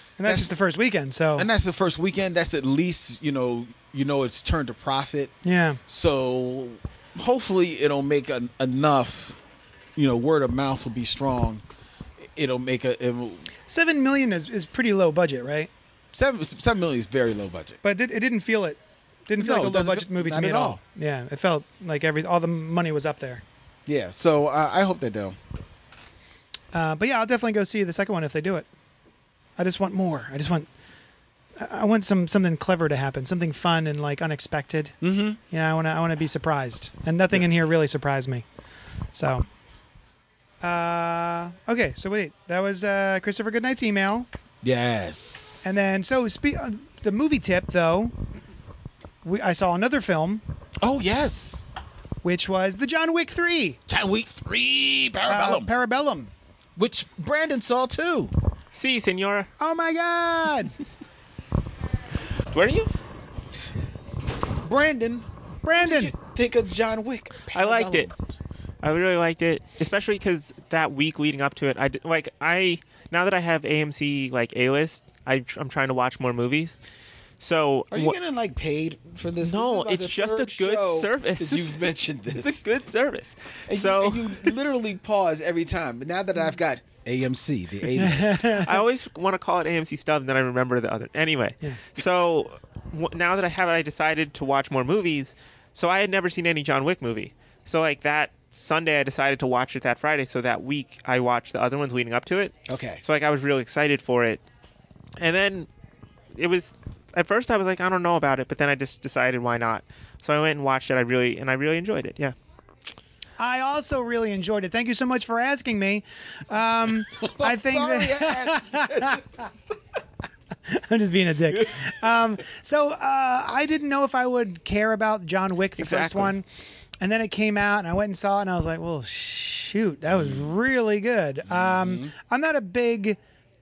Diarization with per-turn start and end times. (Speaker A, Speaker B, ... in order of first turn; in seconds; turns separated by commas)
Speaker A: 0.2-1.5, Speaker B: 0.2-0.5, Speaker B: 1.4-5.3, Speaker A: 5.4-5.8, Speaker B: 5.9-9.4, Speaker B: 9.9-11.6, Speaker B: 12.2-13.5, Speaker A: 13.7-15.7, Speaker B: 16.1-17.8, Speaker A: 17.8-23.4, Speaker B: 19.4-20.8, Speaker B: 23.9-25.4, Speaker A: 26.7-28.7, Speaker A: 29.6-30.7, Speaker A: 31.6-35.0, Speaker B: 35.0-35.4, Speaker A: 35.5-38.4, Speaker A: 39.1-39.5, Speaker A: 40.6-44.3, Speaker B: 44.6-45.7, Speaker A: 45.6-48.1, Speaker A: 49.2-50.4, Speaker B: 50.8-51.6, Speaker A: 52.2-53.8, Speaker B: 53.9-55.7, Speaker A: 55.2-56.3, Speaker B: 56.8-58.3, Speaker C: 58.7-59.5, Speaker A: 59.6-60.7, Speaker C: 62.5-62.9, Speaker B: 64.6-68.1, Speaker A: 65.6-66.1, Speaker C: 67.5-68.1, Speaker C: 68.8-76.8, Speaker C: 77.4-78.1, Speaker B: 77.9-82.6, Speaker C: 79.4-84.5, Speaker B: 83.7-88.7, Speaker A: 88.0-88.8, Speaker C: 88.4-104.4, Speaker B: 102.7-103.0, Speaker C: 105.2-105.7, Speaker C: 106.3-112.3, Speaker A: 113.4-119.2, Speaker B: 117.1-119.4, Speaker A: 120.7-126.5, Speaker B: 121.5-121.9, Speaker C: 125.8-126.3, Speaker A: 127.0-133.2, Speaker B: 130.1-130.5, Speaker B: 131.5-132.1